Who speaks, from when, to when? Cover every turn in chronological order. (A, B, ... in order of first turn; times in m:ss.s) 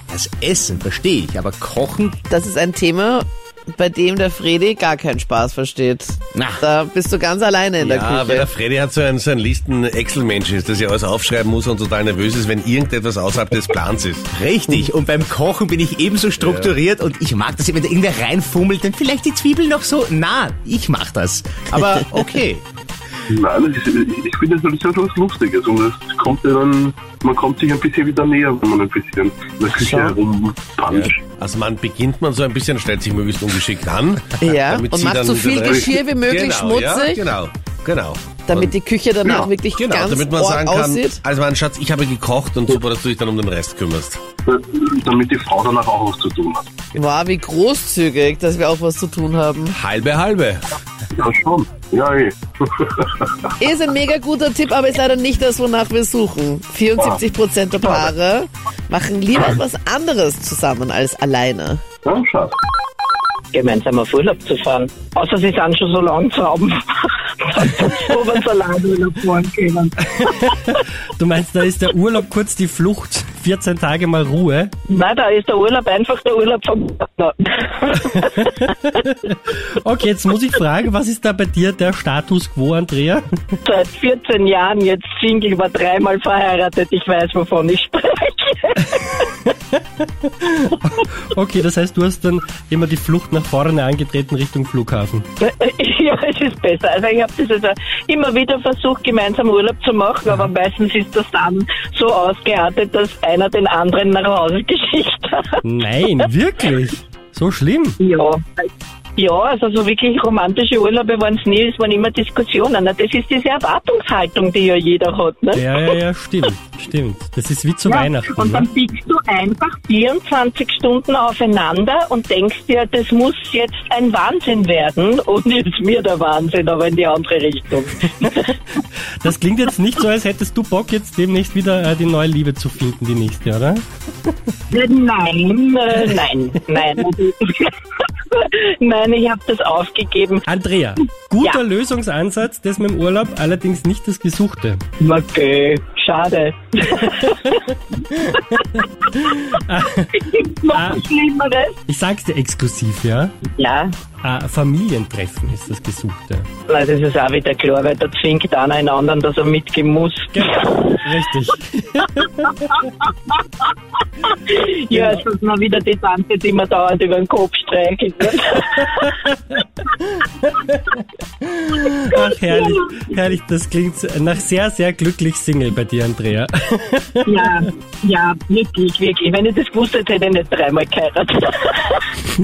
0:00.1-0:02.2 A
0:02.3-0:08.5 B
0:06.3-0:06.6 A
0:07.8-0:14.3 C
0:14.3-0:22.6 A
0:16.4-0:16.7 C
0:23.3-0:31.2 D
0:29.8-0:30.2 B
0:30.9-0:38.7 C
0:34.4-0:37.2 B
0:38.5-0:41.2 B
0:39.2-0:39.5 D
0:39.7-0:44.2 C
0:44.4-0:46.7 D
0:46.9-0:49.8 B
0:49.7-0:50.6 C
0:51.1-0:53.5 D
0:53.6-1:01.8 B
1:02.0-1:02.6 D
1:03.5-1:10.4 E
1:10.2-1:14.7 F
1:14.9-1:18.6 E
1:18.4-1:23.3 F
1:23.6-1:29.2 E
1:29.4-1:35.2 F
1:35.4-1:45.6 E
1:45.6-1:48.0 F
1:48.0-1:55.6 E
1:55.5-1:58.7 F
1:57.8-2:08.5 E
2:09.2-2:13.8 F
2:14.7-2:17.7 E
2:18.2-2:20.4 E
2:20.4-2:24.8 F
2:25.0-2:27.5 E
2:28.3-2:30.1 F
2:30.1-2:31.8 E
2:30.7-2:31.0 F
2:31.9-2:33.3 F
2:33.5-2:33.9 E
2:34.2-2:36.5 F
2:36.7-2:40.4 E
2:40.3-2:42.7 F
2:44.2-2:49.2 E
2:44.9-2:45.2 F
2:50.5-2:50.8 F
2:51.8-2:57.4 F
2:52.1-2:52.8 E
2:57.2-3:02.0 E